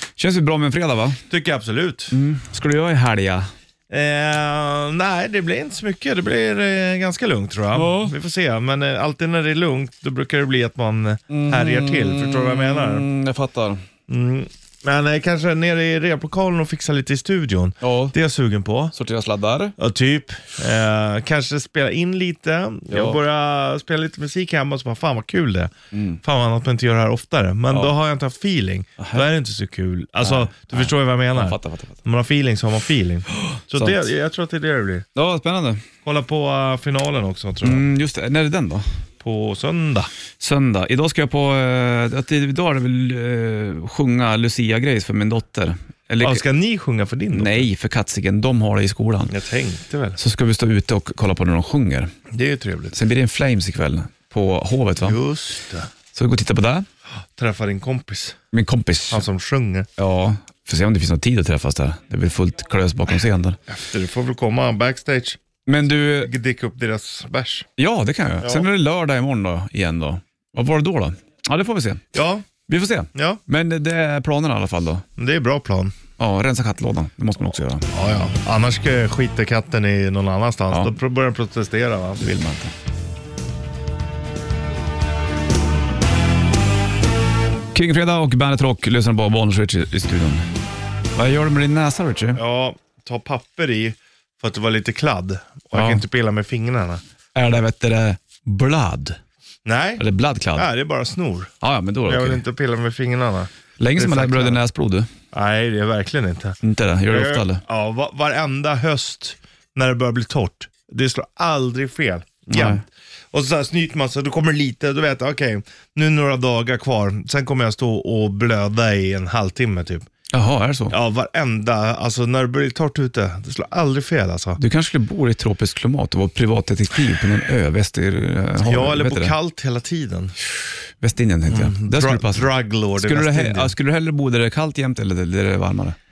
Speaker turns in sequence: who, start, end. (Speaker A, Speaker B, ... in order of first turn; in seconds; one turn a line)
Speaker A: 0.2-1.2
Speaker B: 1.3-2.1
Speaker A: 2.1-3.5
Speaker B: 3.9-13.1
Speaker A: 7.7-8.2
Speaker A: 11.3-13.8
Speaker B: 14.1-18.9
Speaker A: 17.8-18.1
Speaker A: 18.9-19.8
Speaker B: 19.8-25.7
Speaker A: 22.9-23.2
Speaker A: 25.9-26.2
Speaker B: 26.2-35.0
Speaker A: 29.0-29.2
Speaker A: 30.2-32.0
Speaker A: 33.4-34.1
Speaker A: 35.1-35.8
Speaker B: 36.0-37.9
Speaker A: 37.6-38.9
Speaker B: 39.2-40.1
Speaker A: 40.4-46.4
Speaker B: 46.2-47.7
Speaker A: 47.3-49.3
Speaker B: 49.3-50.2
Speaker A: 50.2-52.1
Speaker B: 52.3-53.0
Speaker A: 52.9-55.2
Speaker B: 55.0-55.9
Speaker A: 56.1-56.9
Speaker B: 57.4-58.4
Speaker A: 58.5-59.2
Speaker B: 59.1-59.9
Speaker A: 60.0-63.6
Speaker B: 63.7-65.4
Speaker A: 65.7-66.3
Speaker B: 66.2-67.7
Speaker A: 67.8-72.0
Speaker B: 68.4-68.7
Speaker B: 72.1-72.5
Speaker A: 72.7-75.0
Speaker B: 73.1-73.4
Speaker B: 75.2-75.9
Speaker A: 76.2-77.9
Speaker B: 77.9-82.3
Speaker A: 80.7-81.0
Speaker A: 82.2-82.7
Speaker A: 87.7-90.5
Speaker A: 91.2-92.4
Speaker B: 92.3-97.0
Speaker A: 95.7-96.0
Speaker A: 97.3-99.2
Speaker B: 99.7-101.5
Speaker A: 100.0-100.7
Speaker A: 101.6-102.4
Speaker B: 102.1-104.6
Speaker A: 103.8-105.1
Speaker B: 105.3-106.6
Speaker A: 106.6-107.6
Speaker B: 107.1-120.1
Speaker A: 112.5-112.8
Speaker A: 120.3-121.0
Speaker B: 120.9-124.6
Speaker A: 124.6-129.4
Speaker B: 128.6-130.3
Speaker A: 131.0-136.0
Speaker B: 131.5-133.7